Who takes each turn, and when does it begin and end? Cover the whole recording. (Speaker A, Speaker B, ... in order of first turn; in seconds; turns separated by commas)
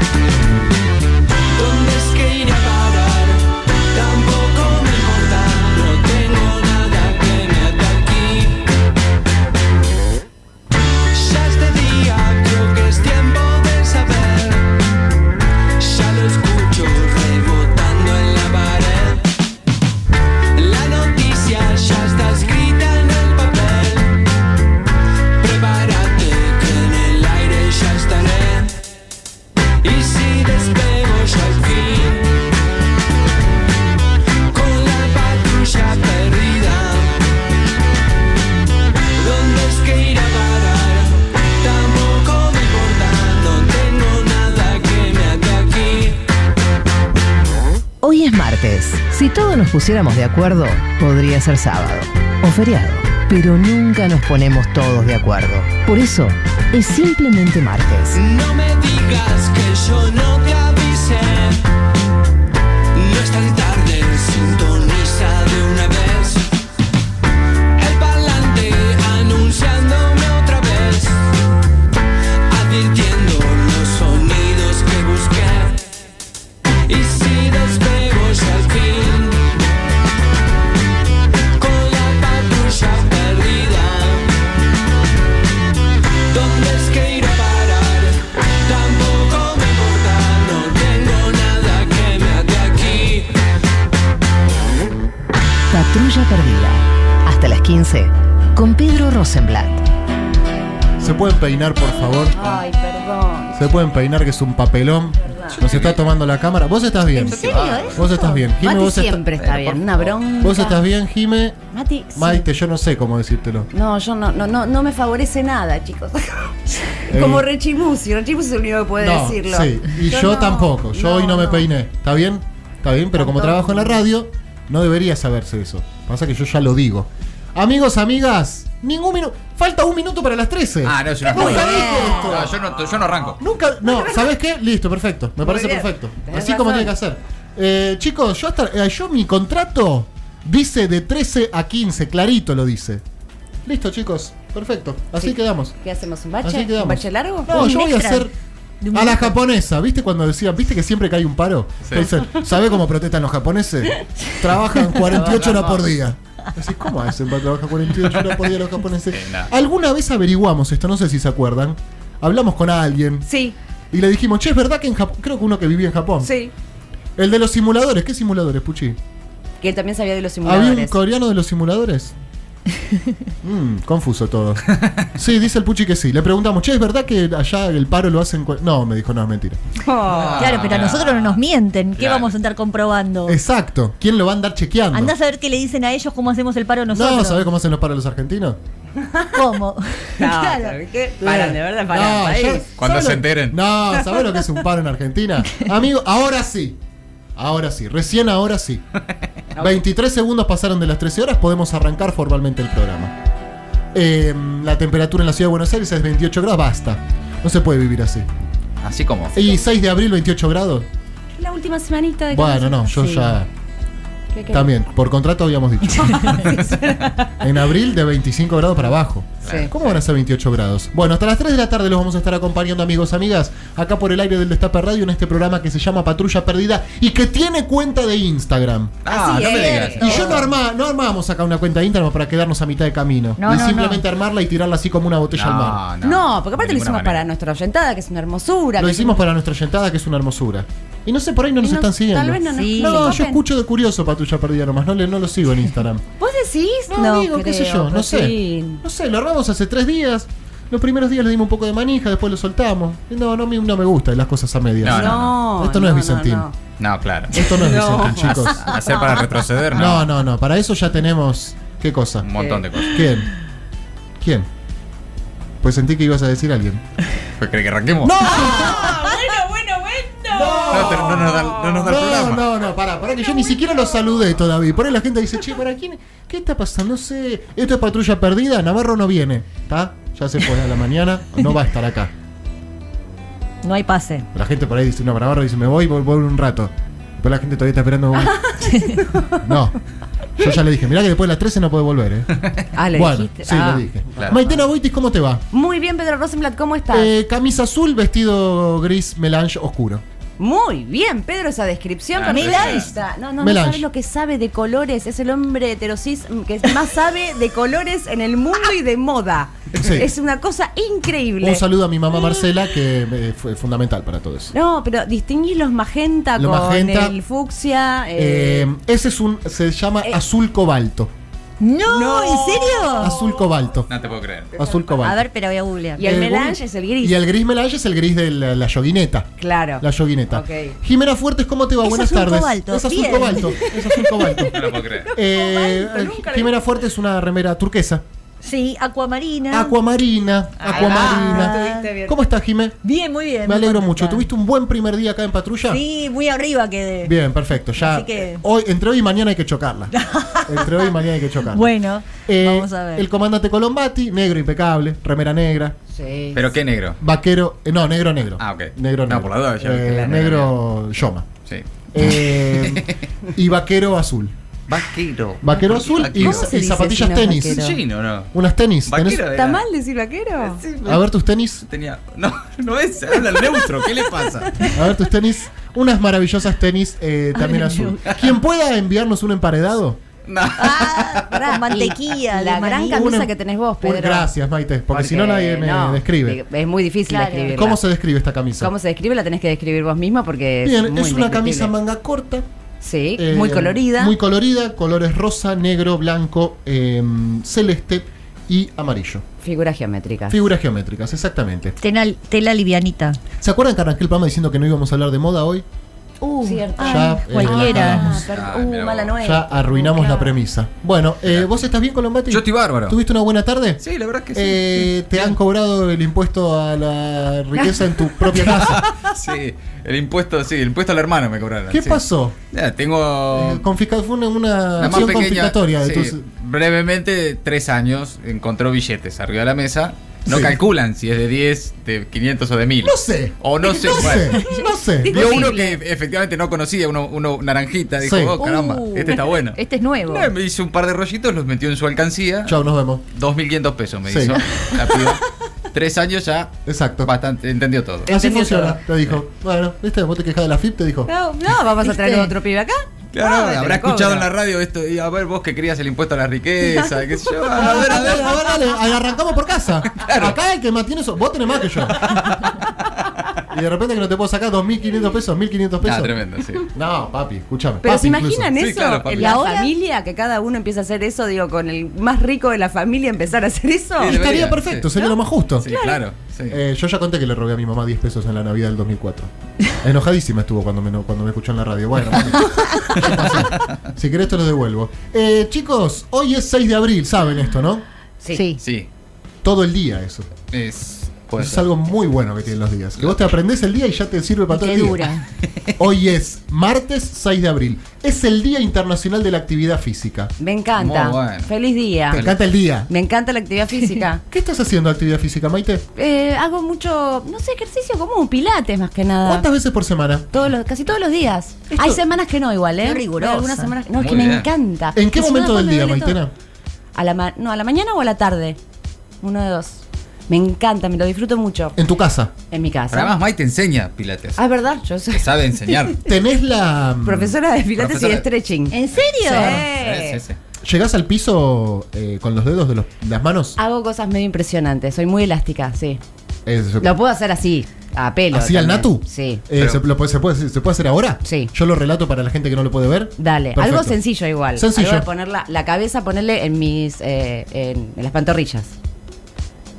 Speaker A: 1.5-8.7, Speaker A: 11.1-14.7, Speaker A: 15.8-19.3, Speaker A: 20.6-24.2, Speaker A: 25.4-28.8, Speaker A: 29.8-32.5, Speaker A: 34.5-37.2, Speaker A: 39.2-46.2, Speaker B: 48.0-58.2, Speaker A: 58.1-61.6, Speaker A: 62.9-66.5, Speaker A: 67.8-71.3, Speaker A: 72.5-75.8, Speaker A: 76.9-79.5, Speaker A: 81.6-84.3, Speaker A: 86.3-93.4, Speaker B: 95.7-99.9, Speaker C: 101.0-102.5, Speaker D: 102.3-103.7, Speaker C: 103.5-109.2, Speaker D: 105.2-105.6, Speaker E: 105.6-106.0, Speaker E: 107.2-108.1, Speaker F: 107.2-108.4, Speaker D: 108.5-110.8, Speaker E: 109.4-110.2, Speaker C: 110.4-111.6, Speaker D: 111.7-112.5, Speaker C: 112.2-113.7, Speaker D: 113.7-121.7, Speaker C: 117.1-117.5, Speaker C: 119.0-132.6, Speaker D: 123.2-124.0, Speaker E: 130.8-133.4, Speaker F: 131.3-132.2, Speaker C: 133.4-143.0, Speaker D: 133.8-134.3, Speaker D: 135.4-136.9, Speaker C: 143.7-145.8, Speaker D: 145.2-147.6, Speaker C: 146.4-148.3, Speaker F: 147.5-148.3, Speaker F: 148.8-149.4, Speaker C: 148.9-163.3, Speaker D: 155.0-155.8, Speaker E: 159.1-159.5, Speaker D: 163.2-163.6, Speaker C: 163.9-166.3, Speaker D: 166.2-166.5, Speaker C: 167.2-169.0, Speaker D: 169.6-171.0, Speaker C: 170.4-172.2, Speaker C: 173.4-179.6, Speaker E: 174.7-175.1, Speaker D: 179.8-180.7, Speaker E: 180.1-181.4, Speaker F: 180.4-183.4, Speaker E: 182.0-182.3, Speaker C: 183.2-185.1, Speaker F: 184.9-187.5, Speaker C: 186.9-188.6, Speaker D: 189.0-189.4, Speaker F: 189.3-190.8, Speaker D: 190.2-192.7, Speaker C: 191.2-196.8, Speaker E: 192.8-193.6, Speaker C: 197.4-198.8, Speaker D: 199.5-199.8, Speaker C: 199.6-203.2, Speaker C: 203.9-208.3, Speaker E: 208.8-209.4, Speaker C: 209.3-210.9, Speaker D: 211.4-213.4, Speaker C: 212.3-213.5, Speaker D: 214.3-214.7, Speaker C: 214.5-216.7, Speaker D: 216.2-217.3, Speaker C: 217.3-229.0, Speaker E: 219.4-220.0, Speaker D: 219.4-219.7, Speaker E: 229.1-230.4, Speaker D: 229.1-230.5, Speaker C: 230.0-235.8, Speaker F: 230.0-230.4, Speaker F: 233.4-234.1, Speaker E: 235.3-237.3, Speaker D: 236.0-239.2, Speaker C: 238.8-246.1, Speaker D: 241.6-243.4, Speaker F: 242.5-243.2, Speaker D: 246.2-248.8, Speaker C: 246.9-256.4, Speaker E: 254.8-255.4, Speaker D: 254.8-256.5, Speaker E: 256.8-260.1, Speaker C: 257.3-258.7, Speaker D: 257.4-258.4, Speaker C: 259.7-263.3, Speaker E: 262.2-263.1, Speaker D: 262.3-262.6, Speaker C: 264.2-264.5, Speaker C: 265.6-266.8, Speaker E: 267.4-268.6, Speaker C: 268.0-269.3, Speaker D: 268.3-271.9, Speaker C: 270.3-282.1, Speaker E: 270.7-272.5, Speaker F: 283.6-284.3, Speaker C: 284.3-288.6, Speaker D: 288.2-289.5, Speaker F: 288.6-289.0, Speaker C: 289.4-289.8, Speaker C: 290.4-292.4, Speaker E: 292.4-292.6, Speaker D: 292.8-294.6, Speaker C: 292.9-295.4, Speaker D: 295.5-297.1, Speaker C: 296.9-300.0, Speaker D: 300.4-311.6, Speaker E: 302.1-302.9, Speaker F: 302.3-303.0, Speaker C: 303.4-303.9, Speaker C: 309.7-310.1, Speaker C: 311.4-314.5, Speaker D: 314.5-318.7, Speaker C: 316.3-317.1, Speaker C: 318.1-321.1, Speaker F: 321.6-323.1, Speaker D: 321.9-323.4, Speaker C: 323.0-323.9, Speaker E: 323.9-324.5, Speaker C: 324.5-325.3, Speaker F: 325.0-326.1, Speaker D: 326.0-327.2, Speaker C: 326.0-338.0, Speaker D: 329.4-330.8, Speaker F: 331.8-333.7, Speaker D: 333.6-336.6, Speaker E: 334.5-335.1, Speaker F: 338.4-339.7, Speaker C: 339.5-342.8, Speaker F: 340.6-341.9, Speaker D: 340.7-342.2, Speaker F: 342.8-344.2, Speaker C: 343.4-345.8, Speaker F: 345.7-347.1, Speaker C: 347.0-351.7, Speaker F: 347.8-348.4, Speaker F: 349.9-350.9, Speaker F: 351.5-353.1, Speaker C: 352.2-355.8, Speaker D: 355.9-356.4, Speaker E: 356.3-357.0, Speaker C: 357.0-361.3, Speaker E: 358.4-360.5, Speaker E: 361.4-363.0, Speaker C: 361.9-364.3, Speaker E: 364.7-366.5, Speaker C: 365.4-367.7, Speaker D: 365.9-367.8, Speaker E: 367.4-368.3, Speaker C: 368.3-369.2, Speaker E: 368.9-369.6, Speaker D: 369.3-370.6, Speaker E: 370.4-371.0, Speaker C: 370.8-371.7, Speaker E: 371.7-374.6, Speaker C: 374.7-380.0, Speaker F: 377.4-377.9, Speaker E: 378.0-378.3, Speaker E: 380.2-381.3, Speaker F: 380.6-383.1, Speaker D: 381.2-384.3, Speaker C: 382.9-386.4, Speaker D: 384.9-387.8, Speaker F: 387.1-387.7, Speaker C: 387.5-388.7, Speaker D: 388.6-391.7, Speaker C: 390.6-392.4, Speaker D: 392.8-394.1, Speaker C: 393.2-399.2, Speaker D: 399.4-400.4, Speaker C: 400.3-401.8, Speaker F: 401.8-403.2, Speaker C: 403.4-405.6, Speaker F: 406.2-408.2, Speaker D: 406.4-410.4, Speaker C: 406.8-408.2, Speaker E: 408.3-409.1, Speaker C: 409.2-413.8, Speaker E: 411.2-411.5, Speaker E: 412.3-413.0, Speaker E: 413.8-415.4, Speaker C: 414.3-418.9, Speaker E: 418.4-423.6, Speaker C: 421.7-422.4, Speaker C: 423.3-426.2, Speaker E: 424.8-434.4, Speaker C: 430.2-430.6, Speaker C: 432.8-435.5, Speaker F: 434.3-435.6, Speaker E: 435.1-448.1, Speaker D: 435.4-435.7, Speaker C: 438.0-438.4, Speaker F: 438.4-440.2, Speaker D: 439.6-440.3, Speaker C: 442.4-443.1, Speaker C: 444.1-444.4, Speaker C: 446.6-447.1, Speaker C: 448.0-451.1, Speaker D: 448.1-448.8, Speaker D: 451.1-454.3, Speaker F: 451.9-452.3, Speaker E: 453.1-458.5, Speaker D: 456.6-458.5, Speaker C: 457.5-462.7, Speaker E: 459.9-460.4, Speaker E: 461.9-462.5, Speaker C: 463.5-466.1, Speaker E: 465.8-466.7, Speaker C: 466.7-468.6, Speaker D: 467.8-474.1, Speaker E: 468.5-469.4, Speaker F: 469.1-469.7, Speaker E: 474.0-474.9, Speaker C: 474.0-475.7, Speaker E: 475.6-476.6, Speaker D: 475.6-476.0, Speaker C: 476.5-487.8, Speaker F: 488.3-488.6, Speaker E: 488.6-488.9, Speaker C: 489.4-490.3, Speaker E: 490.5-491.8, Speaker C: 491.4-495.1, Speaker F: 494.5-495.2, Speaker C: 495.8-500.3, Speaker D: 500.4-502.3, Speaker E: 500.8-501.5, Speaker C: 502.1-502.9, Speaker D: 502.9-504.2, Speaker C: 504.3-505.8, Speaker D: 505.9-509.5, Speaker C: 509.2-510.3, Speaker D: 510.3-516.2, Speaker C: 511.7-512.0, Speaker F: 512.8-513.7, Speaker E: 514.0-514.5, Speaker C: 514.9-516.3, Speaker D: 516.9-518.6, Speaker D: 519.2-521.8, Speaker C: 521.8-522.3, Speaker D: 522.5-523.1, Speaker E: 522.9-524.4, Speaker D: 524.4-525.9, Speaker E: 525.1-526.0, Speaker C: 526.0-527.4, Speaker D: 527.0-530.2, Speaker E: 527.8-528.2, Speaker F: 528.7-529.6, Speaker C: 529.2-529.6, Speaker E: 529.3-530.4, Speaker C: 530.6-533.6, Speaker D: 533.6-536.0, Speaker C: 536.5-536.9, Speaker D: 536.8-539.4, Speaker C: 538.3-544.0, Speaker E: 539.5-539.8, Speaker D: 541.2-541.5, Speaker D: 543.2-548.7, Speaker C: 544.5-545.1